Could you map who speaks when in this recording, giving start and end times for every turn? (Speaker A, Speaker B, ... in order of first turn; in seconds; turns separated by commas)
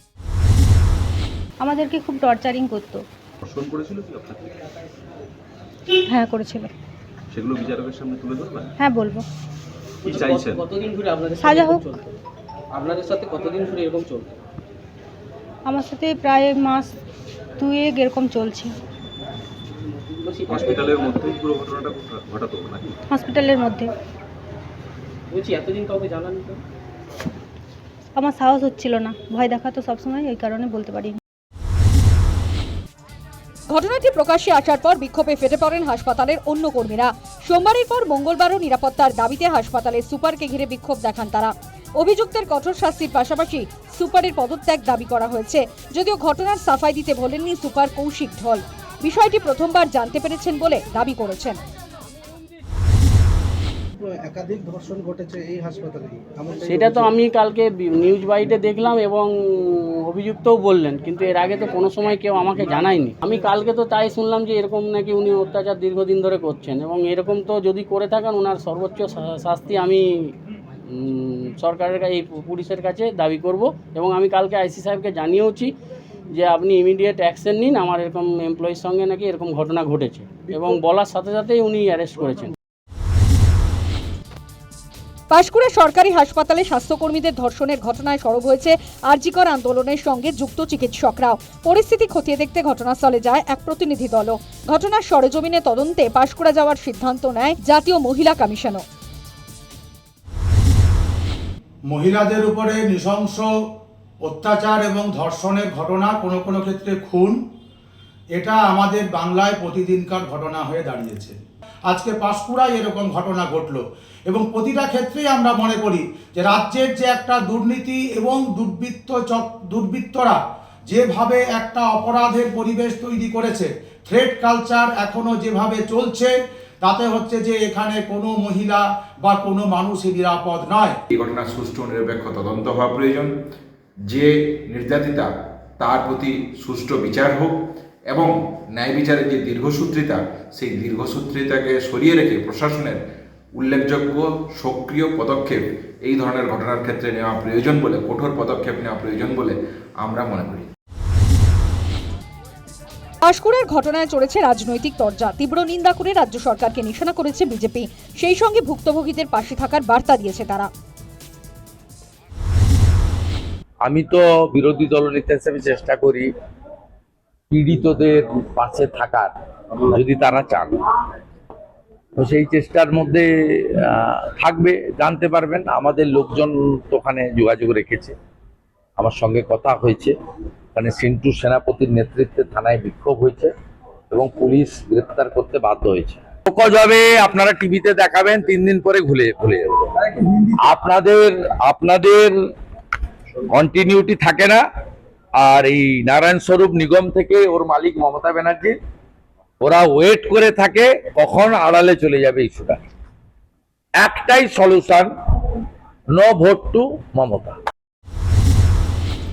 Speaker A: 1.6-3.0, Speaker B: 3.4-4.6, Speaker A: 6.1-6.7, Speaker B: 7.3-8.7, Speaker A: 8.8-9.3, Speaker C: 10.1-12.2, Speaker B: 10.1-10.7, Speaker A: 11.4-11.8, Speaker C: 12.7-14.3, Speaker A: 15.7-16.9, Speaker A: 17.6-18.8, Speaker C: 20.2-21.0, Speaker B: 20.5-23.0, Speaker A: 23.1-23.9, Speaker C: 25.3-26.6, Speaker A: 28.2-31.2, Speaker D: 33.7-51.6, Speaker E: 54.0-57.1, Speaker F: 56.6-75.7, Speaker F: 76.3-82.6, Speaker D: 85.3-98.8, Speaker G: 101.9-103.5, Speaker G: 104.2-107.4, Speaker G: 108.3-131.0, Speaker H: 131.1-133.3, Speaker H: 134.1-137.6, Speaker H: 138.1-143.0, Speaker H: 143.6-150.7, Speaker D: 153.2-160.7, Speaker I: 163.8-166.3, Speaker I: 167.5-169.3, Speaker I: 169.8-170.8, Speaker I: 172.2-178.2, Speaker I: 179.0-180.1, Speaker I: 180.8-183.5, Speaker I: 184.1-192.4, Speaker I: 193.5-194.6, Speaker I: 195.4-198.8, Speaker I: 199.6-202.8, Speaker I: 204.0-205.5, Speaker I: 206.1-207.6